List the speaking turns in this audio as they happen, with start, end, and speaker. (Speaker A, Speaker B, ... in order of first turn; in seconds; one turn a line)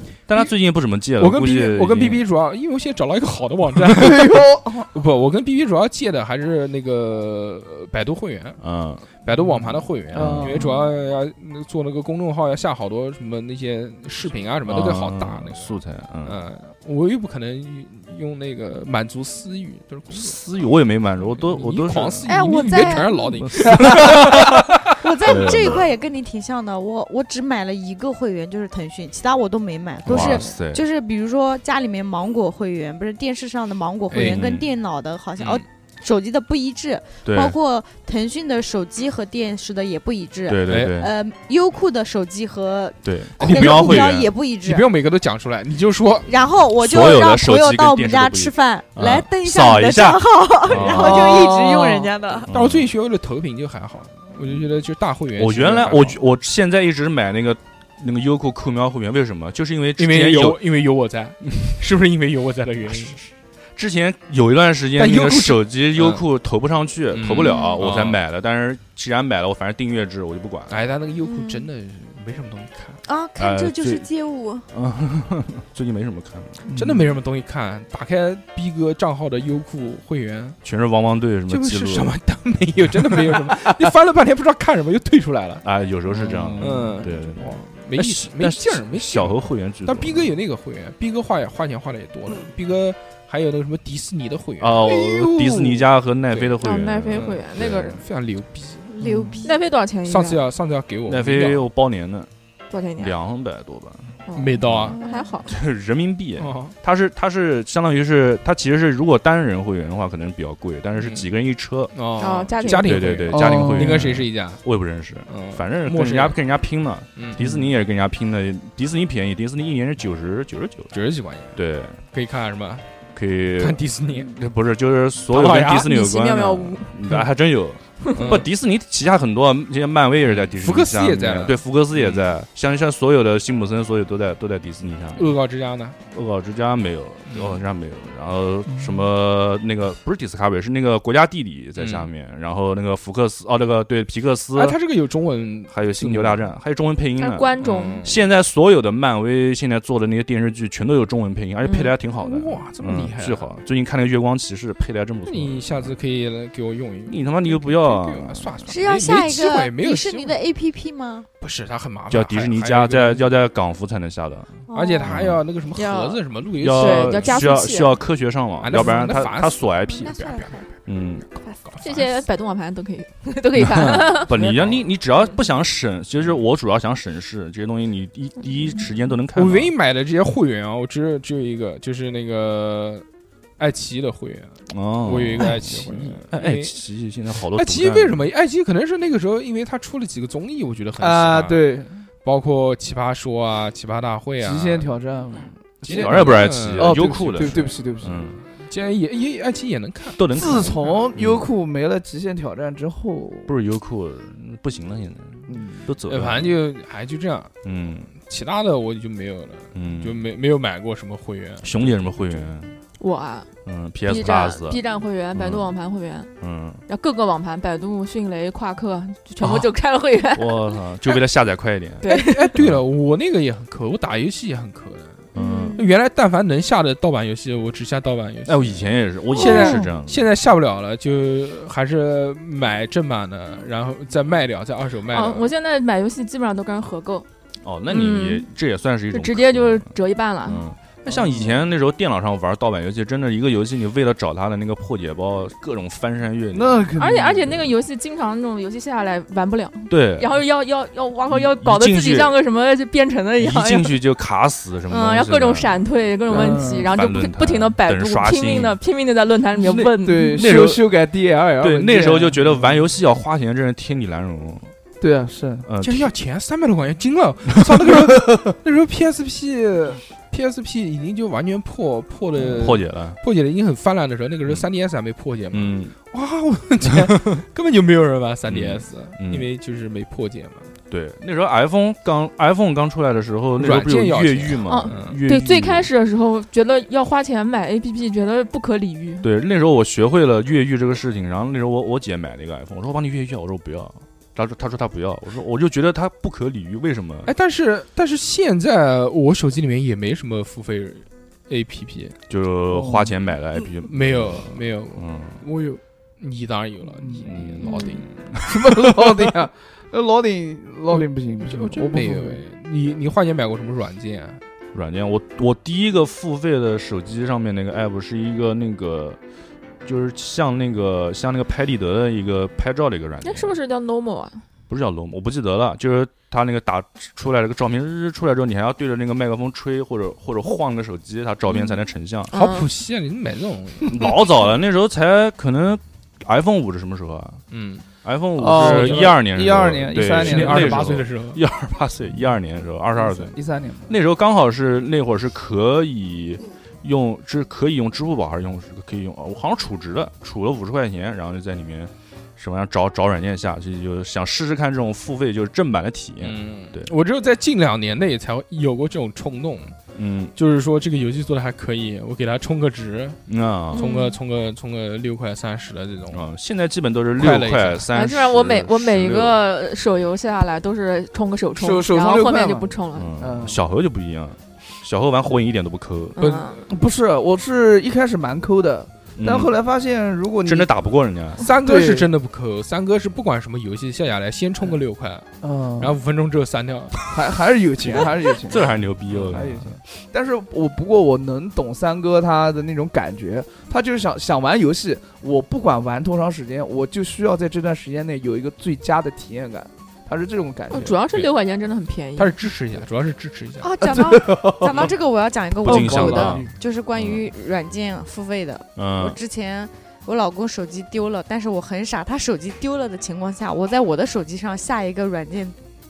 Speaker A: 0.3-2.2
Speaker B: 1.2-8.6
Speaker C: 3.8-4.9
Speaker A: 8.6-9.1
Speaker B: 9.2-20.4
Speaker C: 10.1-10.7
Speaker A: 10.1-10.5
Speaker D: 10.6-10.9
Speaker A: 14.7-16.4
Speaker A: 20.1-22.3
Speaker B: 21.4-24.9
Speaker D: 22.2-44.9
Speaker A: 23.4-24.0
Speaker A: 25.2-25.9
Speaker A: 30.1-30.8
Speaker B: 30.1-30.5
Speaker B: 34.1-34.4
Speaker A: 34.1-34.7
Speaker B: 35.4-35.6
Speaker A: 37.2-37.6
Speaker A: 40.5-41.1
Speaker B: 40.6-41.1
Speaker A: 43.0-44.3
Speaker B: 43.4-46.3
Speaker D: 46.3-52.5
Speaker A: 46.8-51.4
Speaker C: 50.9-52.1
Speaker A: 52.5-52.9
Speaker B: 52.5-56.2
Speaker A: 55.4-60.6
Speaker B: 60.0-63.2
Speaker A: 63.8-70.8
Speaker B: 64.9-66.2
Speaker B: 67.1-68.2
Speaker D: 67.4-67.8
Speaker B: 70.7-73.0
Speaker D: 71.2-71.7
Speaker D: 73.0-74.7
Speaker A: 73.4-74.1
Speaker A: 74.7-76.6
Speaker C: 76.7-77.1
Speaker B: 76.7-80.6
Speaker A: 80.6-82.1
Speaker B: 81.5-85.7
Speaker A: 85.6-90.3
Speaker C: 86.1-87.0
Speaker B: 86.6-98.9
Speaker A: 94.6-98.0
Speaker E: 96.6-98.0
Speaker D: 98.9-99.6
Speaker C: 99.0-99.4
Speaker E: 99.4-100.4
Speaker B: 100.0-101.7
Speaker A: 101.1-102.3
Speaker E: 102.7-103.2
Speaker A: 103.0-112.1
Speaker E: 104.3-105.5
Speaker B: 104.3-105.0
Speaker D: 105.0-105.3
Speaker B: 106.4-106.7
Speaker B: 110.9-111.3
Speaker B: 111.9-114.6
Speaker E: 112.2-113.2
Speaker A: 112.6-120.9
Speaker C: 113.3-114.2
Speaker B: 115.3-116.4
Speaker B: 117.2-117.6
Speaker B: 120.9-122.9
Speaker A: 121.5-122.0
Speaker A: 123.1-135.3
Speaker B: 123.6-124.3
Speaker B: 125.3-125.9
Speaker E: 125.8-127.0
Speaker E: 128.0-128.4
Speaker B: 128.2-128.5
Speaker B: 130.2-132.3
Speaker B: 135.1-136.0
Speaker A: 136.1-144.8
Speaker B: 137.3-137.6
Speaker C: 138.7-138.9
Speaker B: 141.8-142.1
Speaker B: 144.5-146.5
Speaker A: 145.7-155.9
Speaker E: 147.2-148.1
Speaker B: 147.6-148.2
Speaker E: 151.6-151.9
Speaker B: 152.2-153.5
Speaker B: 155.2-160.4
Speaker A: 157.1-158.7
Speaker D: 158.7-161.3
Speaker B: 161.4-163.3
Speaker A: 162.1-164.5
Speaker D: 164.7-165.2
Speaker B: 164.7-167.6
Speaker A: 165.0-165.4
Speaker E: 165.8-166.2
Speaker A: 166.6-170.2
Speaker E: 166.7-168.0
Speaker B: 168.6-170.6
Speaker D: 169.9-170.7
Speaker A: 170.9-171.3
Speaker B: 171.7-172.1
Speaker E: 171.8-174.4
Speaker A: 173.6-179.7
Speaker B: 174.4-174.8
Speaker B: 179.3-183.1
Speaker B: 183.6-186.8
Speaker A: 184.7-188.2
Speaker B: 187.3-191.7
Speaker C: 191.0-192.0
Speaker B: 192.2-194.9
Speaker C: 194.4-198.2
Speaker A: 195.8-198.4
Speaker B: 195.8-197.6
Speaker B: 198.7-200.6
Speaker A: 200.2-201.5
Speaker C: 200.3-203.5
Speaker A: 203.5-206.5
Speaker C: 205.5-205.9
Speaker B: 206.1-207.5
Speaker A: 207.6-208.1
Speaker B: 208.1-212.5
Speaker A: 209.7-210.2
Speaker A: 211.6-212.7
Speaker E: 213.0-213.5
Speaker A: 213.7-214.8
Speaker E: 214.1-216.3
Speaker A: 215.3-215.7
Speaker A: 216.4-216.8
Speaker E: 216.9-221.2
Speaker A: 220.3-222.8
Speaker E: 222.0-222.6
Speaker B: 222.1-225.2
Speaker A: 225.3-225.8
Speaker D: 225.3-225.9
Speaker B: 225.8-235.5
Speaker A: 228.4-230.3
Speaker E: 235.1-237.3
Speaker A: 237.6-246.9
Speaker E: 237.9-238.5
Speaker E: 239.1-240.7
Speaker C: 241.1-241.6
Speaker C: 246.5-247.7
Speaker E: 247.0-254.0
Speaker A: 249.9-250.4
Speaker A: 251.3-252.3
Speaker A: 253.4-258.8
Speaker E: 254.9-260.4
Speaker C: 256.3-256.9
Speaker C: 259.6-262.9
Speaker A: 260.3-260.9
Speaker A: 261.6-264.7
Speaker C: 265.0-265.7
Speaker A: 265.6-266.1
Speaker B: 265.8-280.7
Speaker A: 272.5-273.2
Speaker A: 275.5-275.9
Speaker A: 278.5-279.5
Speaker A: 280.9-285.9
Speaker B: 283.6-285.2
Speaker E: 284.6-289.3
Speaker A: 289.2-297.3
Speaker B: 297.2-302.2
Speaker A: 302.3-305.4
Speaker C: 302.7-303.1
Speaker B: 303.8-305.1
Speaker C: 305.4-305.8
Speaker B: 306.2-308.1
Speaker C: 307.0-307.3
Speaker A: 307.2-309.1
Speaker C: 308.4-312.4
Speaker B: 310.9-314.4
Speaker A: 314.7-319.2
Speaker A: 319.8-323.6
Speaker E: 323.2-324.4
Speaker A: 324.7-332.3
Speaker E: 332.3-332.7
Speaker B: 332.3-334.1
Speaker A: 333.9-337.4
Speaker B: 337.5-337.9
Speaker A: 338.0-343.4
Speaker C: 338.4-340.9
Speaker B: 338.5-339.2
Speaker B: 340.1-341.4
Speaker C: 343.0-343.9
Speaker A: 343.9-356.9
Speaker B: 356.2-359.8
Speaker A: 359.9-360.3
Speaker B: 360.4-363.2
Speaker A: 363.3-363.9
Speaker D: 363.7-364.1
Speaker B: 363.7-366.2
Speaker E: 363.8-364.1
Speaker A: 366.1-369.4
Speaker B: 367.1-367.9
Speaker E: 367.9-373.1
Speaker C: 371.6-373.6
Speaker A: 372.9-376.2
Speaker E: 376.2-376.6
Speaker B: 376.2-376.6
Speaker C: 376.6-380.7
Speaker A: 379.2-379.5
Speaker A: 380.4-381.5
Speaker B: 381.4-387.0
Speaker C: 381.6-382.1
Speaker C: 385.4-386.0
Speaker C: 387.1-388.7
Speaker A: 388.0-389.8
Speaker B: 389.1-389.4
Speaker C: 389.2-401.0
Speaker E: 400.7-402.4
Speaker B: 402.2-403.7
Speaker D: 403.6-415.6
Speaker C: 403.9-404.9
Speaker A: 405.6-407.2
Speaker C: 405.6-406.5
Speaker A: 408.8-409.2